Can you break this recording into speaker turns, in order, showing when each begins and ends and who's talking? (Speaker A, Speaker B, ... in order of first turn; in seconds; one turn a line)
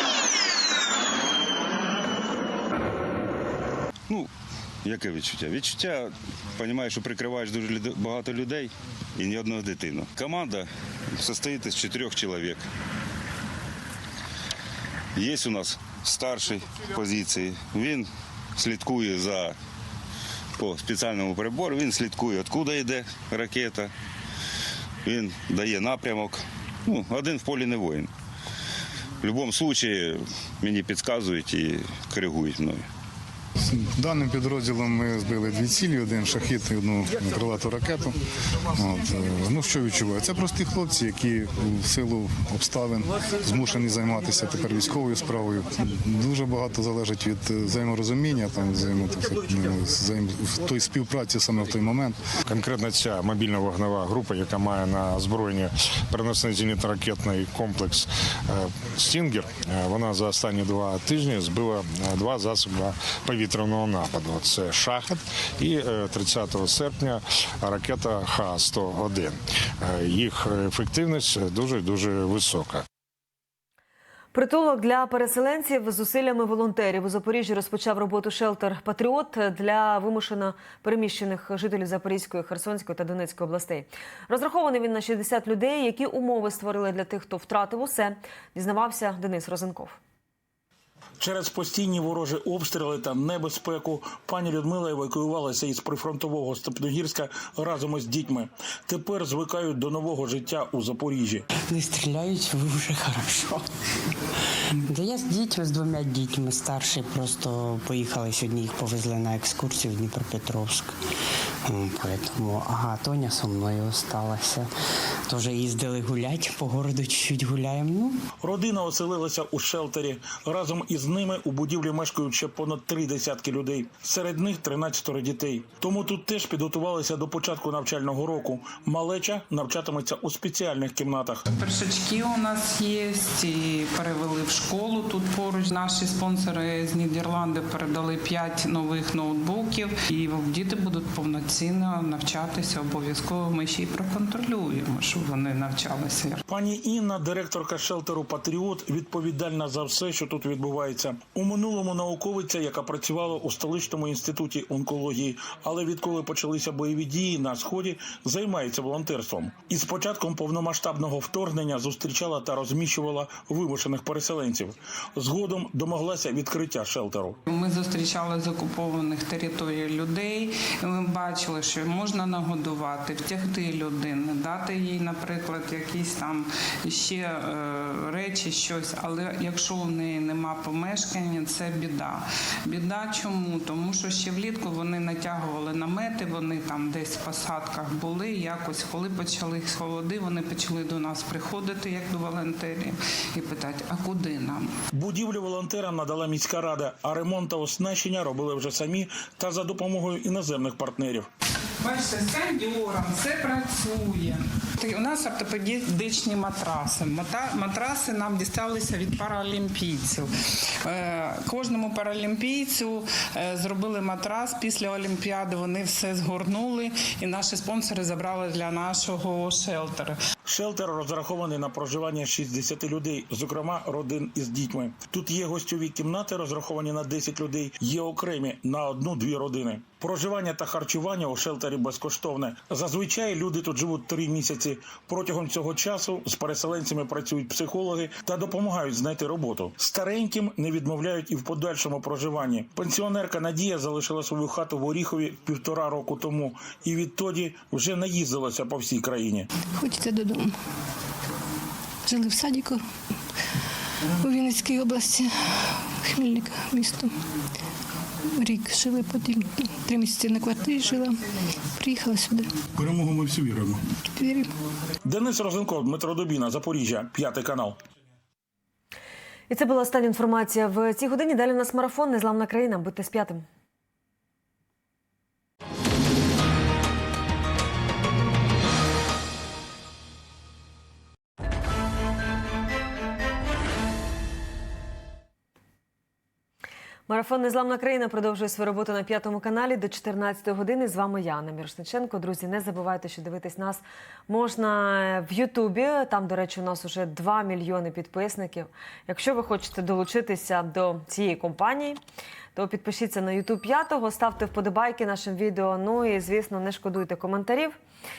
Speaker A: 4.8-12.7
Speaker A: 15.2-19.6
Speaker A: 20.6-23.9
Speaker A: 25.0-28.1
Speaker A: 29.2-32.9
Speaker B: 33.6-38.2
Speaker B: 38.7-52.2
Speaker C: 52.5-72.8
Speaker D: 74.3-90.0
Speaker E: 91.2-101.4
Speaker F: 101.7-103.7
Speaker F: 104.8-111.0
Speaker F: 111.7-114.7
Speaker F: 115.3-118.2
Speaker E: 118.4-131.4
Speaker G: 131.5-146.4
Speaker E: 146.5-167.4
Speaker G: 167.5-194.7
Speaker E: 194.9-201.3
Speaker G: 201.8-210.3
Speaker G: 210.8-220.2
Speaker E: 220.5-249.5
Speaker H: 249.7-250.5
Speaker H: 252.1-252.8
Speaker H: 254.2-255.3
Speaker H: 256.0-257.1
Speaker H: 258.4-261.2
Speaker H: 261.8-262.6
Speaker E: 262.7-263.8
Speaker H: 264.1-264.5
Speaker E: 265.0-267.8
Speaker D: 269.5-273.4
Speaker D: 287.1-302.0
Speaker D: 302.6-307.8